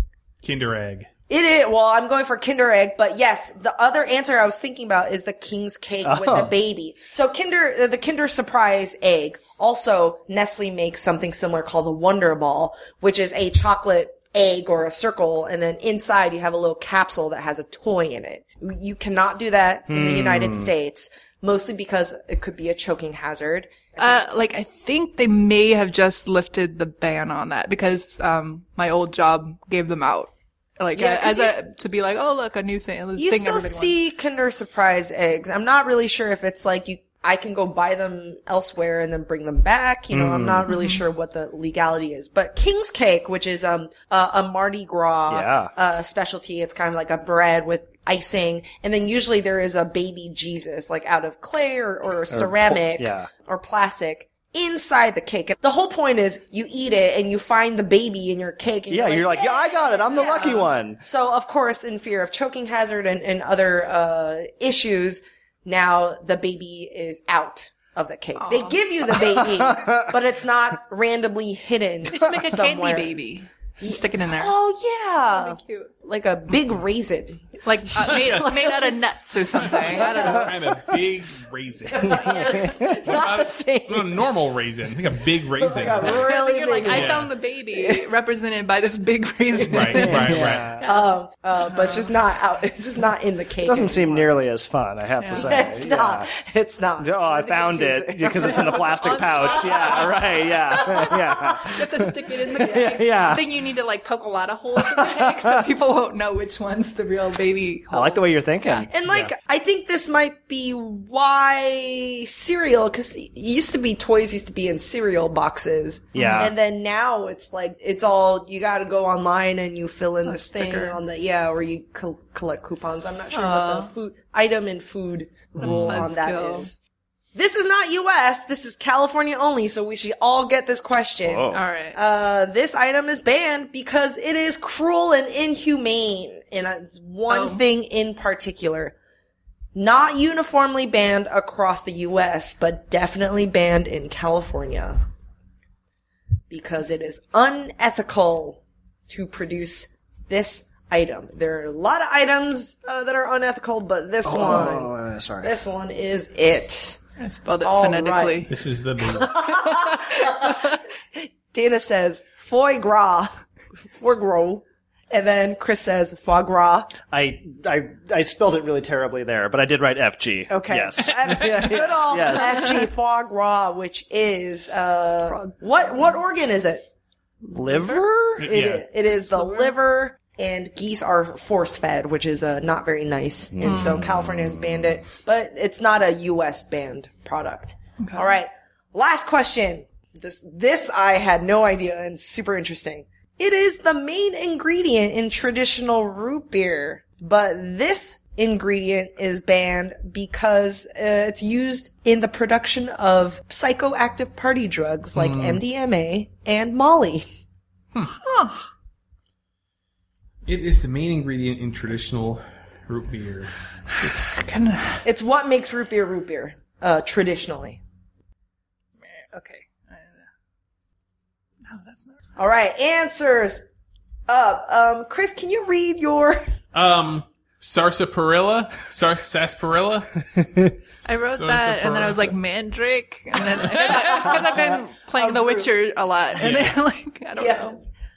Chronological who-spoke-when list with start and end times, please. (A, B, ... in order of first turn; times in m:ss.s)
0:00.4-0:01.1 A
0:01.3-0:24.2 B
0:06.0-0:06.5 C
0:19.9-0:20.7 C
0:24.0-0:34.0 D
0:30.9-0:31.6 B
0:33.2-1:13.2 B
0:40.1-0:40.7 C
0:40.7-0:41.0 D
0:45.3-0:45.7 C
0:52.3-0:53.3 C
0:58.9-1:01.0 C
1:00.2-1:00.6 D
1:08.3-1:08.8 D
1:09.1-1:10.1 C
1:12.0-1:14.5 D
1:13.8-1:18.7 B
1:15.3-1:15.9 D
1:17.6-1:20.5 D
1:18.1-1:18.5 A
1:19.6-1:22.3 A
1:19.8-1:20.5 B
1:21.9-1:24.2 B
1:22.1-1:22.8 D
1:22.4-1:22.9 C
1:22.9-1:26.3 A
1:25.6-1:28.0 B
1:26.0-1:32.1 D
1:26.9-1:27.3 A
1:29.7-1:30.7 A
1:30.0-1:30.8 C
1:30.8-1:34.3 B
1:33.6-1:36.3 C
1:35.2-1:35.5 D
1:35.3-1:40.1 B
1:37.0-1:43.4 C
1:38.4-1:48.9 D
1:41.0-1:41.6 B
1:44.8-1:45.6 C
1:47.9-1:48.9 C
1:48.9-2:06.7 B
1:56.1-1:56.5 C
1:56.1-1:56.5 D
2:00.2-2:01.0 D
2:03.3-2:03.9 D
2:05.6-2:06.7 D
2:05.6-2:06.1 C
2:07.3-2:18.9 B
2:11.2-2:11.6 C
2:11.5-2:12.0 D
2:17.3-2:17.6 D
2:19.7-2:25.0 B
2:26.5-2:37.0 B
2:34.2-2:35.6 C
2:37.2-2:38.5 D
2:37.6-2:47.0 B
2:38.5-2:39.4 A
2:39.5-2:40.8 D
2:47.1-2:52.7 C
2:50.5-2:56.8 B
2:52.3-2:52.7 D
2:55.2-2:55.6 D
2:57.5-2:58.5 C
2:57.6-2:58.0 D
2:58.4-2:58.9 A
2:58.4-3:27.2 B
2:59.2-2:59.7 D
3:03.5-3:04.9 C
3:03.6-3:04.0 D
3:08.0-3:08.3 D
3:25.1-3:25.6 A
3:28.2-3:28.6 D
3:30.4-3:34.4 A
3:34.2-3:35.0 D
3:35.0-3:37.8 B
3:39.0-3:40.2 D
3:41.6-3:42.2 D
3:42.4-3:43.6 B
3:44.3-3:46.5 B
3:46.7-3:50.1 A
3:51.0-3:52.3 A
3:51.0-3:57.8 D
3:54.0-3:54.4 B
3:55.1-3:55.7 B
3:56.4-3:56.7 A
3:57.4-3:57.7 B